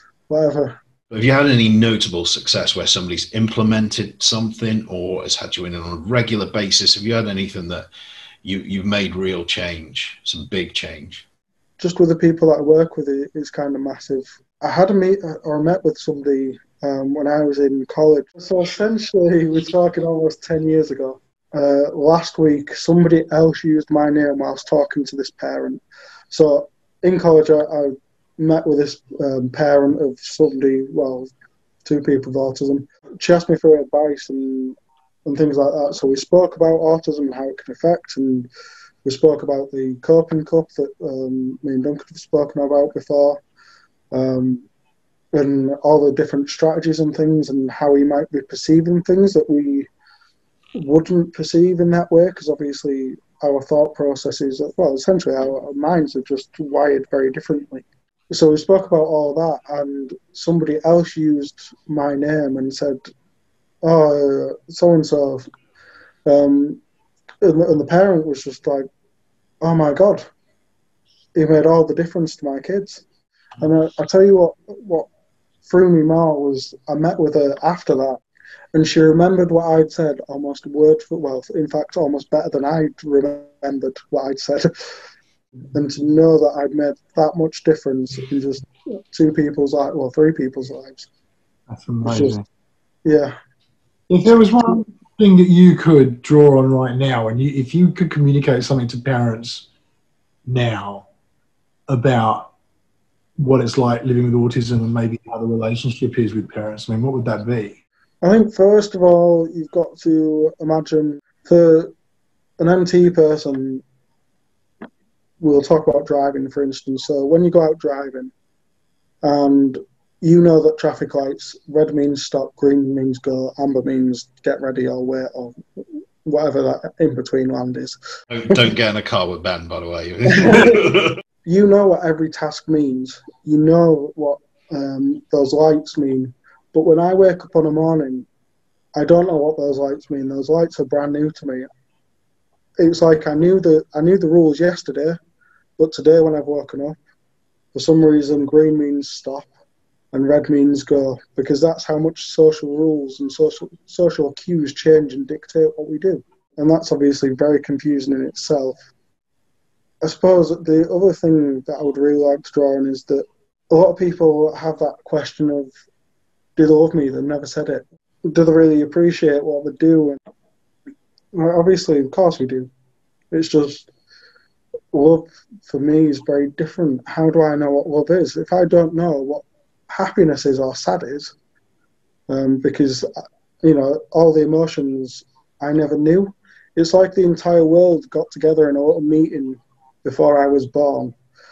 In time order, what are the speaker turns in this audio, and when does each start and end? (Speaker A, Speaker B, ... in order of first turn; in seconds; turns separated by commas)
Speaker A: 0.3-0.8, Speaker B: 1.1-7.9, Speaker B: 8.4-11.2, Speaker A: 11.8-31.3, Speaker A: 31.9-38.5, Speaker A: 39.0-43.4, Speaker A: 44.1-44.7, Speaker A: 45.3-49.9, Speaker A: 50.8-63.1, Speaker A: 63.8-65.5, Speaker A: 66.3-66.8, Speaker A: 67.4-68.9, Speaker A: 69.6-70.3, Speaker A: 71.3-73.0, Speaker A: 73.6-75.1, Speaker A: 75.7-78.2, Speaker A: 78.7-84.7, Speaker A: 85.7-91.1, Speaker C: 91.7-92.5, Speaker A: 92.0-92.4, Speaker A: 93.0-93.3, Speaker C: 94.1-99.7, Speaker C: 100.5-101.1, Speaker C: 101.9-102.5, Speaker C: 103.4-107.8, Speaker A: 108.2-111.9, Speaker A: 112.6-113.8, Speaker A: 115.4-118.3, Speaker A: 119.2-125.6, Speaker A: 126.2-128.0, Speaker B: 128.3-131.2, Speaker A: 130.3-130.9, Speaker A: 131.4-138.3, Speaker A: 139.0-141.7, Speaker A: 142.8-145.2, Speaker A: 145.8-147.0, Speaker A: 147.7-149.5, Speaker A: 150.1-158.9, Speaker A: 160.0-165.7, Speaker A: 166.6-170.2, Speaker A: 171.3-172.7, Speaker A: 173.3-173.9, Speaker A: 174.9-181.3, Speaker A: 182.3-183.1, Speaker A: 183.6-191.2